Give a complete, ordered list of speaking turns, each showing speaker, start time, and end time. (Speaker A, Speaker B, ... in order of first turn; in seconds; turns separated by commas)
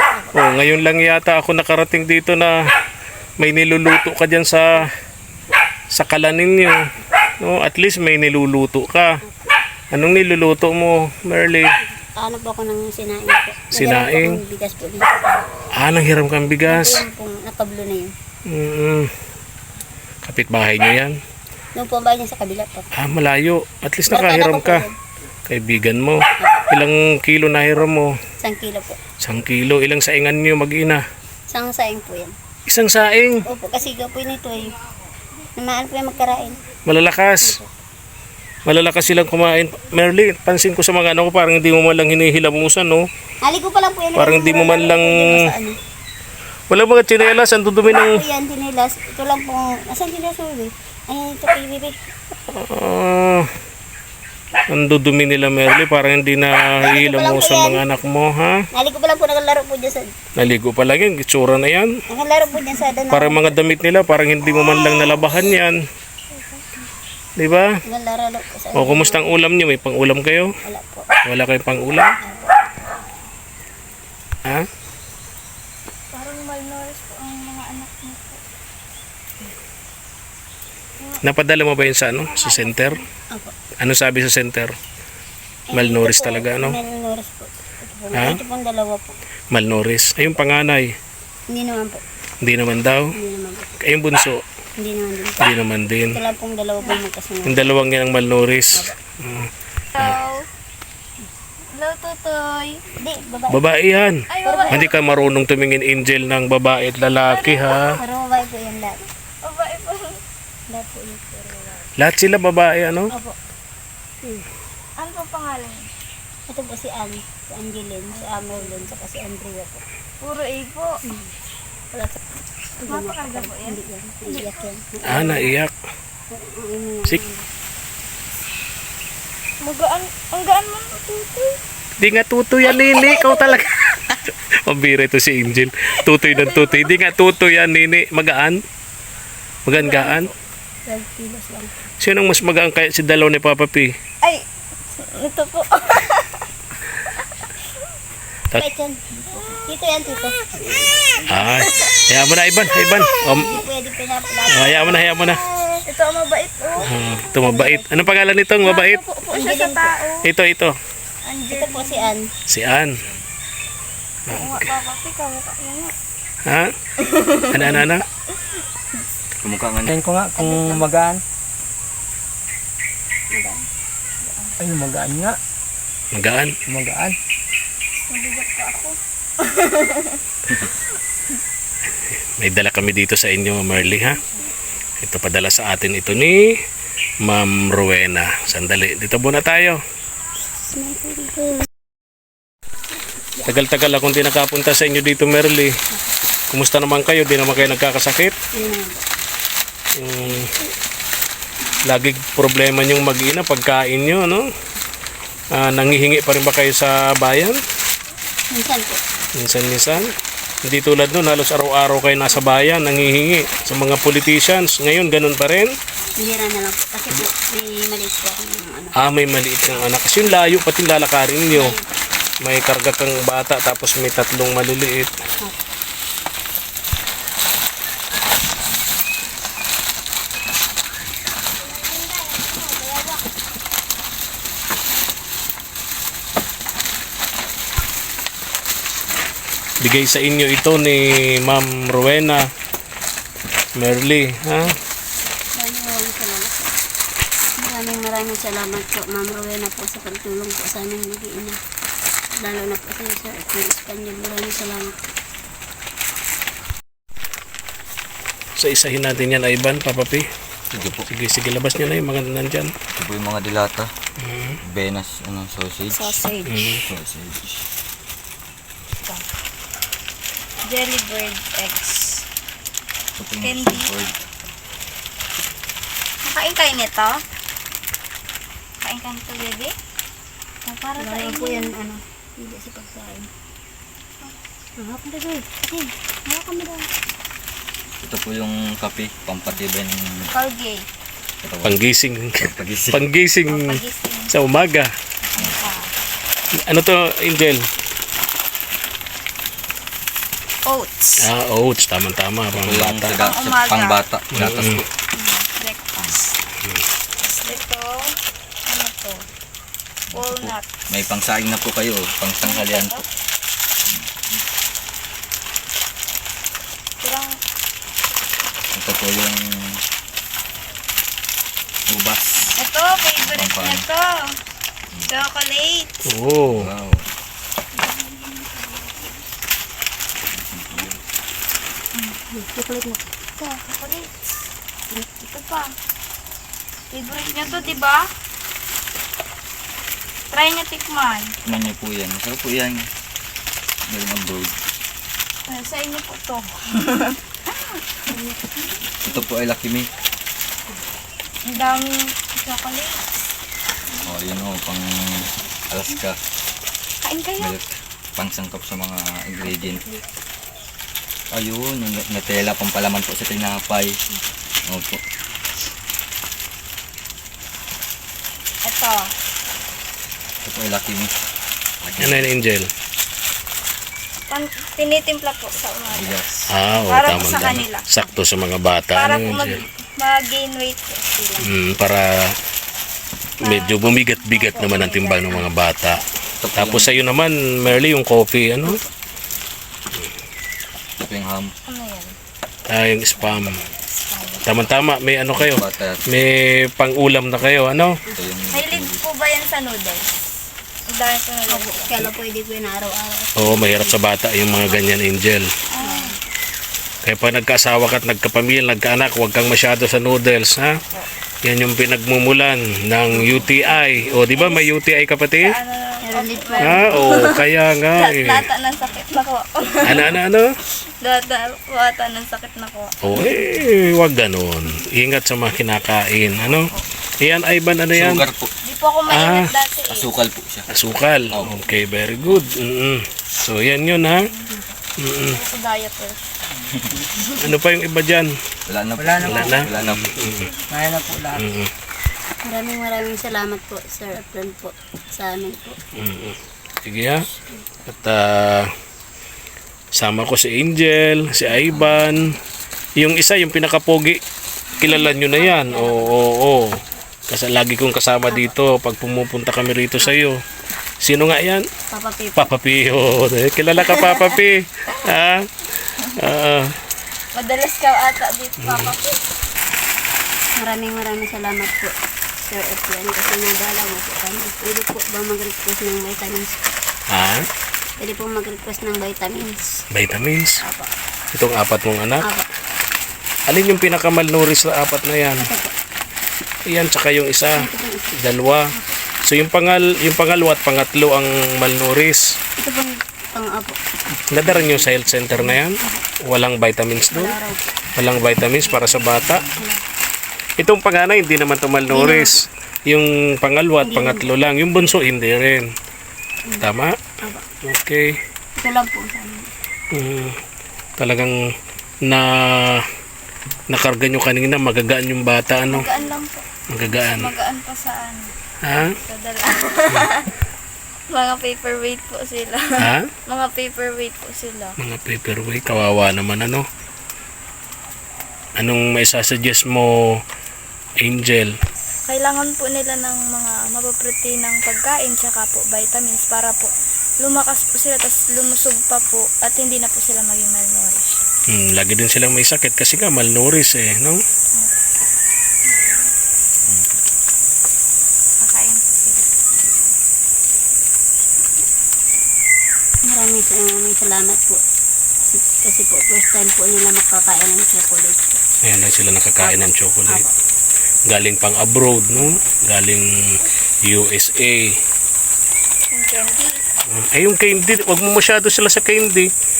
Speaker A: 0.3-2.6, Speaker A: 3.4-4.9, Speaker A: 5.9-6.9, Speaker A: 7.4-9.2, Speaker B: 9.2-9.5, Speaker A: 9.9-11.8, Speaker B: 12.2-15.4, Speaker A: 13.7-14.4, Speaker A: 15.8-17.0, Speaker B: 16.7-18.1, Speaker A: 18.5-19.1, Speaker A: 20.2-21.2, Speaker B: 21.8-22.9, Speaker A: 22.9-24.9, Speaker B: 24.1-24.9, Speaker A: 25.5-28.2, Speaker B: 26.4-26.6, Speaker B: 28.4-29.0, Speaker A: 29.2-31.0, Speaker B: 31.5-32.4, Speaker A: 32.7-33.5, Speaker B: 33.5-34.7, Speaker B: 35.6-36.6, Speaker A: 36.9-37.6, Speaker B: 37.4-37.7, Speaker A: 38.7-43.1, Speaker B: 43.4-45.8, Speaker A: 44.2-45.5, Speaker A: 46.7-48.2, Speaker B: 47.9-52.0, Speaker A: 52.5-53.5, Speaker A: 54.7-58.6, Speaker B: 56.8-57.8, Speaker B: 58.7-60.1, Speaker A: 60.4-62.0, Speaker B: 62.1-63.6, Speaker A: 63.1-65.8, Speaker C: 66.3-66.8, Speaker A: 67.4-67.8, Speaker B: 67.9-69.3, Speaker A: 68.8-70.5, Speaker B: 70.6-71.1, Speaker A: 71.2-72.2, Speaker B: 72.2-72.6, Speaker C: 76.1-78.4, Speaker A: 81.2-83.0, Speaker C: 82.2-83.0, Speaker A: 83.8-84.8, Speaker B: 85.7-89.2, Speaker A: 85.7-86.8, Speaker A: 88.1-88.4, Speaker A: 89.5-91.0, Speaker B: 91.5-92.0, Speaker A: 92.4-93.1, Speaker B: 93.2-93.7, Speaker A: 93.8-94.4, Speaker B: 94.8-95.5, Speaker A: 95.4-96.2, Speaker B: 96.1-97.8, Speaker A: 97.5-100.2, Speaker C: 100.0-100.5, Speaker C: 101.7-102.8, Speaker B: 103.0-103.6, Speaker A: 103.5-108.0, Speaker C: 104.3-105.0, Speaker B: 104.4-104.9, Speaker C: 107.3-107.8, Speaker B: 107.9-109.1, Speaker C: 109.4-110.2, Speaker B: 110.7-111.9, Speaker A: 112.0-113.1, Speaker B: 113.1-113.4, Speaker C: 115.0-115.9, Speaker B: 116.5-119.8, Speaker C: 118.1-118.9, Speaker C: 120.2-121.0, Speaker B: 121.9-122.2, Speaker B: 122.8-125.5, Speaker C: 122.9-124.7, Speaker A: 125.1-125.7, Speaker B: 126.3-127.5, Speaker C: 129.6-131.5, Speaker A: 132.0-138.6, Speaker C: 132.7-134.2, Speaker C: 136.2-136.9, Speaker A: 139.7-140.3, Speaker C: 139.9-140.2, Speaker B: 140.9-141.7, Speaker A: 142.0-143.9, Speaker C: 144.2-146.4, Speaker B: 148.6-149.0, Speaker B: 149.7-150.3, Speaker A: 150.6-153.6, Speaker C: 151.2-152.1, Speaker C: 152.9-153.4, Speaker B: 153.3-155.8, Speaker A: 154.5-155.4, Speaker C: 155.9-156.9, Speaker A: 156.8-159.0, Speaker B: 157.4-158.1, Speaker C: 158.6-160.3, Speaker B: 159.3-160.0, Speaker A: 160.2-160.8, Speaker C: 161.3-162.1, Speaker B: 161.5-162.3, Speaker A: 162.5-163.0, Speaker A: 164.3-164.7, Speaker C: 164.3-165.9, Speaker A: 166.5-166.7, Speaker C: 167.0-167.8, Speaker A: 167.5-168.1, Speaker D: 169.4-169.9, Speaker E: 169.9-171.2, Speaker B: 170.4-170.8, Speaker B: 173.3-173.7, Speaker C: 174.2-174.6, Speaker E: 174.6-175.4, Speaker A: 176.1-176.6, Speaker E: 176.7-177.2, Speaker C: 178.1-180.2, Speaker A: 182.1-184.2, Speaker A: 185.0-186.6, Speaker A: 187.2-189.8, Speaker B: 190.6-191.7, Speaker A: 193.4-195.8, Speaker A: 196.5-198.4, Speaker B: 198.5-199.0, Speaker A: 199.9-200.5, Speaker A: 201.8-204.5, Speaker A: 205.5-207.6, Speaker B: 208.5-209.0, Speaker A: 209.4-210.1, Speaker A: 210.7-215.7, Speaker B: 216.2-218.9, Speaker A: 219.0-221.8, Speaker B: 221.5-221.9, Speaker A: 222.4-225.2, Speaker A: 239.8-242.5, Speaker A: 243.8-244.7, Speaker B: 245.6-246.7, Speaker B: 247.6-251.6, Speaker B: 252.4-255.0, Speaker A: 258.6-260.3, Speaker D: 260.7-261.1, Speaker A: 261.0-262.7, Speaker D: 262.9-263.9, Speaker A: 264.2-264.6, Speaker D: 264.7-266.2, Speaker C: 265.9-266.6, Speaker A: 266.5-266.9, Speaker D: 266.8-267.7, Speaker C: 270.6-272.2, Speaker D: 273.2-274.2, Speaker C: 273.4-273.9, Speaker C: 276.2-277.2, Speaker C: 278.8-279.7, Speaker C: 280.6-281.7, Speaker B: 281.0-283.3, Speaker B: 284.8-285.9, Speaker C: 286.3-286.9, Speaker D: 288.0-290.3, Speaker C: 290.3-290.9, Speaker D: 291.4-291.8, Speaker A: 291.6-294.9, Speaker D: 292.4-293.0, Speaker C: 293.5-294.3, Speaker C: 295.3-295.9, Speaker A: 296.6-297.6, Speaker C: 300.7-301.3, Speaker A: 301.2-303.2, Speaker D: 302.5-304.9, Speaker C: 303.2-304.0, Speaker A: 304.4-304.8, Speaker C: 305.1-306.4, Speaker C: 307.2-308.1, Speaker C: 308.7-309.2, Speaker D: 310.1-313.0, Speaker C: 310.1-310.7, Speaker C: 312.4-313.0, Speaker C: 317.0-317.4, Speaker D: 318.7-319.8, Speaker D: 321.9-322.6, Speaker C: 322.6-324.4, Speaker D: 323.2-323.9, Speaker C: 325.1-326.1, Speaker A: 326.1-326.7, Speaker D: 326.5-327.1, Speaker D: 330.3-331.0, Speaker C: 331.9-332.2, Speaker B: 332.3-333.0, Speaker C: 333.4-334.1, Speaker C: 335.1-335.7, Speaker C: 336.9-338.1, Speaker C: 340.3-341.4, Speaker D: 341.4-342.9, Speaker D: 343.9-344.6, Speaker C: 345.5-347.8, Speaker B: 348.1-348.4, Speaker D: 349.0-349.9, Speaker C: 351.5-353.0, Speaker D: 354.0-356.2, Speaker C: 357.0-357.6, Speaker D: 357.4-359.9, Speaker D: 361.3-364.0, Speaker D: 364.7-365.0, Speaker C: 368.6-369.1, Speaker D: 370.4-371.1, Speaker D: 371.8-372.3, Speaker A: 372.0-372.7, Speaker C: 374.3-376.2, Speaker D: 375.9-376.5, Speaker A: 376.5-379.6, Speaker C: 376.7-377.9, Speaker C: 378.9-381.2, Speaker A: 381.4-382.4, Speaker A: 383.4-386.0, Speaker C: 383.4-385.5, Speaker D: 386.4-387.1, Speaker A: 386.6-388.8, Speaker D: 391.0-391.5, Speaker C: 391.7-392.2, Speaker A: 392.7-393.6, Speaker C: 393.9-394.5, Speaker A: 394.4-398.0, Speaker D: 395.4-396.1, Speaker D: 398.1-399.0, Speaker C: 398.5-400.1, Speaker C: 400.9-402.0, Speaker B: 401.5-404.0, Speaker A: 403.4-405.5, Speaker C: 405.7-406.1, Speaker B: 405.8-406.2, Speaker A: 407.0-410.8, Speaker A: 411.4-415.6, Speaker C: 413.3-414.7, Speaker C: 415.4-420.1, Speaker B: 416.0-417.3, Speaker A: 416.6-418.5, Speaker A: 419.8-420.5, Speaker C: 420.7-422.9, Speaker A: 423.0-428.2, Speaker D: 427.9-428.5, Speaker C: 428.6-430.1, Speaker A: 429.1-429.5, Speaker D: 429.9-430.7, Speaker A: 430.7-434.3, Speaker D: 431.3-431.8, Speaker A: 435.0-435.4, Speaker C: 435.2-436.2, Speaker D: 436.7-436.9, Speaker A: 437.4-438.3, Speaker D: 438.7-440.2, Speaker E: 439.0-439.7, Speaker A: 439.2-440.5, Speaker E: 440.7-441.5, Speaker A: 441.3-441.7, Speaker B: 442.4-445.8, Speaker A: 445.9-447.2, Speaker A: 447.9-448.7, Speaker A: 449.9-452.4, Speaker A: 453.0-454.2, Speaker C: 454.8-456.0, Speaker A: 454.8-460.4, Speaker B: 455.6-456.0, Speaker B: 458.3-458.5, Speaker A: 461.0-461.7, Speaker B: 461.9-462.5, Speaker A: 462.4-466.8, Speaker C: 463.9-464.4, Speaker C: 467.3-469.2, Speaker A: 468.6-468.9, Speaker B: 470.6-476.8, Speaker A: 477.1-477.5, Speaker B: 478.0-479.8, Speaker A: 479.9-480.6, Speaker B: 480.6-480.9, Speaker A: 481.3-482.3, Speaker A: 483.5-485.5, Speaker B: 485.4-485.7, Speaker A: 486.7-488.7, Speaker B: 487.6-488.2, Speaker A: 489.2-492.3, Speaker B: 492.6-493.8, Speaker A: 494.3-497.4, Speaker B: 494.4-494.9, Speaker B: 495.5-496.0, Speaker B: 497.1-497.7, Speaker A: 498.0-499.5, Speaker B: 499.5-499.8, Speaker A: 500.6-505.7, Speaker B: 501.9-502.3, Speaker B: 503.8-504.3, Speaker A: 506.6-507.0, Speaker A: 507.6-508.2, Speaker B: 508.6-509.5, Speaker A: 509.9-510.4, Speaker A: 511.0-511.4, Speaker A: 512.0-512.9, Speaker A: 513.7-515.9, Speaker C: 515.6-518.3, Speaker A: 516.7-517.3, Speaker A: 518.6-519.0, Speaker C: 518.9-520.3, Speaker C: 521.1-524.8, Speaker A: 522.8-523.1, Speaker A: 524.8-526.7, Speaker A: 528.6-530.2, Speaker A: 531.0-531.6, Speaker C: 532.1-541.2, Speaker A: 541.5-544.2, Speaker D: 546.7-547.0, Speaker C: 548.4-549.3, Speaker B: 553.1-554.6, Speaker B: 555.3-558.4, Speaker A: 558.6-560.3, Speaker B: 559.4-560.3, Speaker A: 561.1-564.8, Speaker C: 565.9-566.6, Speaker A: 566.9-569.3